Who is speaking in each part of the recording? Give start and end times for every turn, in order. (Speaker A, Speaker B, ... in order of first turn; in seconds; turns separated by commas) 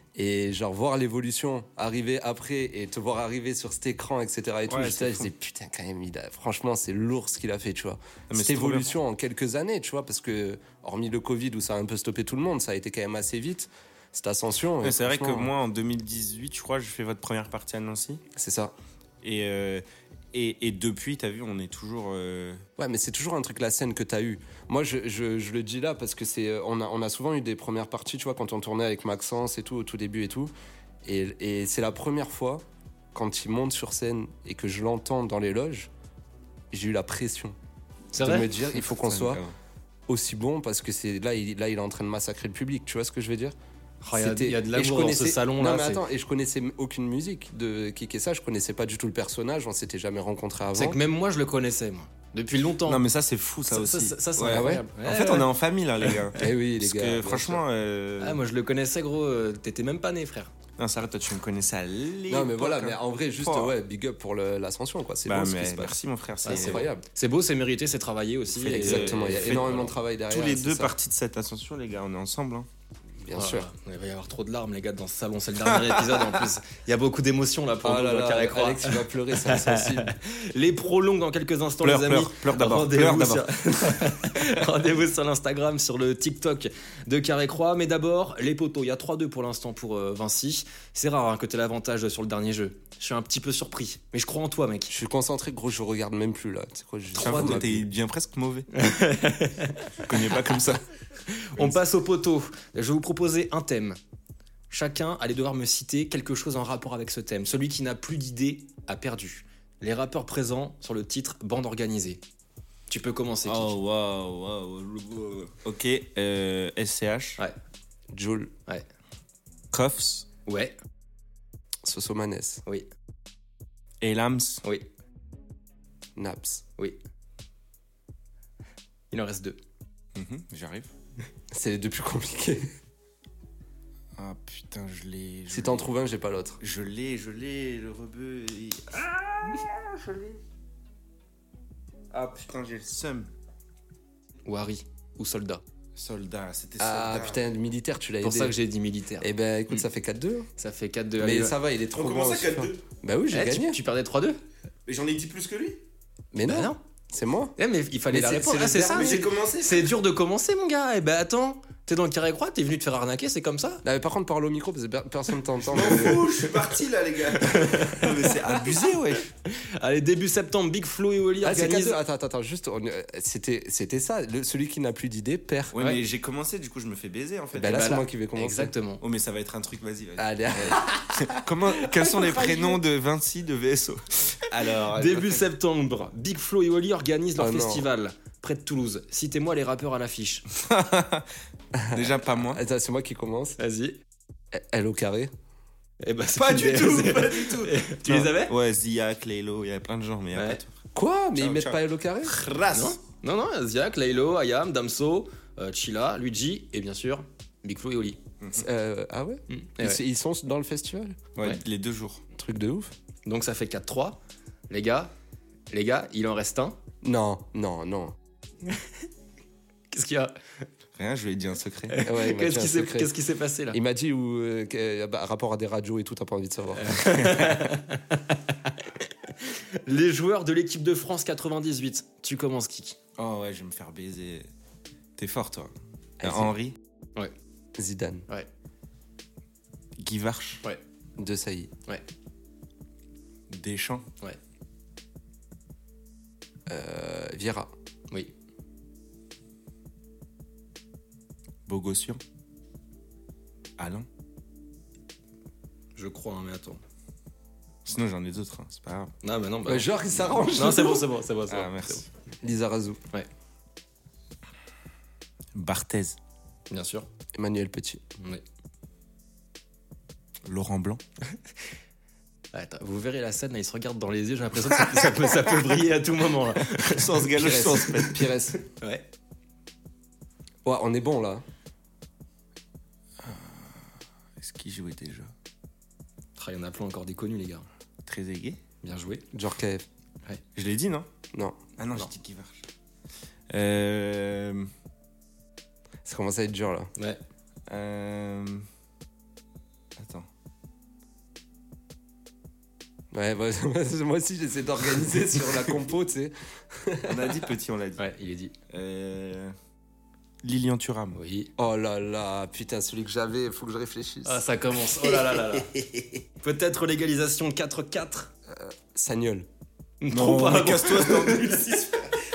Speaker A: 0.1-15.5, Speaker B: 4.7-5.3, Speaker B: 8.3-8.9, Speaker B: 14.8-18.2, Speaker A: 18.4-18.7, Speaker B: 19.2-22.6, Speaker A: 22.8-30.5, Speaker A: 31.0-35.9, Speaker A: 36.7-37.6, Speaker C: 38.1-38.5, Speaker A: 38.2-39.4, Speaker B: 39.0-39.5, Speaker A: 40.1-43.5, Speaker C: 44.0-46.0, Speaker A: 44.1-51.0, Speaker C: 50.8-53.0, Speaker B: 52.9-58.4, Speaker C: 53.7-55.5, Speaker A: 54.5-54.9, Speaker C: 56.1-56.5, Speaker A: 56.4-57.6, Speaker C: 58.2-60.5, Speaker B: 60.8-63.7, Speaker A: 62.3-67.0, Speaker B: 65.3-66.9, Speaker C: 66.4-69.9, Speaker A: 68.6-71.0, Speaker B: 68.6-72.7, Speaker A: 73.2-73.7, Speaker C: 73.3-94.9, Speaker A: 77.8-80.1, Speaker B: 81.8-83.5, Speaker A: 94.9-97.9, Speaker B: 97.2-98.7, Speaker C: 97.2-97.7, Speaker C: 98.7-100.5, Speaker B: 100.0-100.8, Speaker C: 101.3-104.0, Speaker C: 104.7-112.2, Speaker C: 112.9-113.7, Speaker B: 113.5-117.4, Speaker A: 118.1-118.5, Speaker B: 119.7-120.3, Speaker C: 120.5-120.8, Speaker A: 121.8-122.6, Speaker B: 124.0-124.6, Speaker A: 126.2-126.6, Speaker C: 129.1-129.6, Speaker B: 130.2-130.9, Speaker A: 131.5-132.7, Speaker B: 134.2-135.9, Speaker A: 135.5-136.6, Speaker B: 136.6-140.4, Speaker B: 142.1-143.3, Speaker C: 144.5-145.6, Speaker B: 146.0-147.4, Speaker A: 146.8-148.6, Speaker C: 148.2-149.3, Speaker A: 149.2-150.5, Speaker C: 150.6-151.6, Speaker A: 151.2-153.8, Speaker B: 151.9-152.8, Speaker C: 153.3-154.4, Speaker B: 154.9-155.8, Speaker A: 156.3-157.6, Speaker C: 156.4-156.8, Speaker C: 157.6-163.8, Speaker A: 158.1-159.3, Speaker B: 158.9-159.9, Speaker A: 163.8-166.3, Speaker B: 165.7-169.3, Speaker C: 165.8-166.7, Speaker C: 167.3-168.9, Speaker C: 169.5-172.0, Speaker A: 171.4-175.7, Speaker B: 175.7-178.1, Speaker A: 177.5-178.7, Speaker C: 177.7-179.0, Speaker B: 179.0-185.4, Speaker A: 180.2-182.8, Speaker C: 184.9-190.4, Speaker A: 187.4-187.9, Speaker B: 190.5-191.3, Speaker A: 191.8-193.6, Speaker B: 191.9-192.6, Speaker C: 193.6-194.0, Speaker A: 194.5-195.3, Speaker C: 196.0-198.6, Speaker B: 196.4-200.8, Speaker C: 200.3-200.6, Speaker A: 200.9-202.4, Speaker B: 201.4-203.0, Speaker C: 202.7-208.2, Speaker A: 208.5-211.3, Speaker C: 209.5-210.0, Speaker B: 211.4-212.2, Speaker A: 212.3-212.9, Speaker C: 213.3-215.1, Speaker C: 215.7-216.8, Speaker A: 217.0-218.2, Speaker C: 218.7-219.1, Speaker C: 219.9-220.7, Speaker B: 221.0-222.0, Speaker C: 221.9-223.8, Speaker A: 222.0-223.1, Speaker A: 223.7-227.0, Speaker C: 226.8-233.0, Speaker B: 233.2-234.5, Speaker B: 235.2-236.8, Speaker A: 236.2-236.5, Speaker A: 237.8-238.3, Speaker B: 240.0-240.6, Speaker A: 241.2-241.7, Speaker B: 243.5-244.1, Speaker A: 246.7-247.7, Speaker B: 251.7-252.2, Speaker B: 253.8-254.1, Speaker C: 256.0-256.8, Speaker B: 257.9-259.1, Speaker C: 259.2-262.1, Speaker A: 259.7-261.1, Speaker B: 261.5-262.1, Speaker A: 262.4-263.0, Speaker B: 265.6-266.2, Speaker C: 266.7-267.1, Speaker A: 267.4-268.0, Speaker B: 270.4-271.0, Speaker C: 272.5-277.8, Speaker B: 276.9-278.2, Speaker A: 277.4-278.6, Speaker C: 278.7-279.1, Speaker A: 280.6-281.4, Speaker B: 283.2-283.8, Speaker B: 284.4-285.3, Speaker C: 286.4-287.7, Speaker B: 288.1-288.6, Speaker C: 288.8-289.2, Speaker A: 289.3-289.9, Speaker B: 290.6-291.1, Speaker B: 291.8-292.6, Speaker B: 293.5-294.7, Speaker A: 296.1-296.9, Speaker B: 297.7-298.6, Speaker B: 300.0-300.3, Speaker A: 303.1-307.4, Speaker B: 307.1-308.0, Speaker C: 308.0-308.5, Speaker B: 308.7-309.5, Speaker B: 310.4-311.2, Speaker C: 311.1-311.5, Speaker A: 311.6-314.4, Speaker C: 314.2-315.7, Speaker A: 315.0-316.2, Speaker C: 316.4-318.3, Speaker A: 318.5-319.5, Speaker C: 320.0-322.2, Speaker B: 320.1-322.0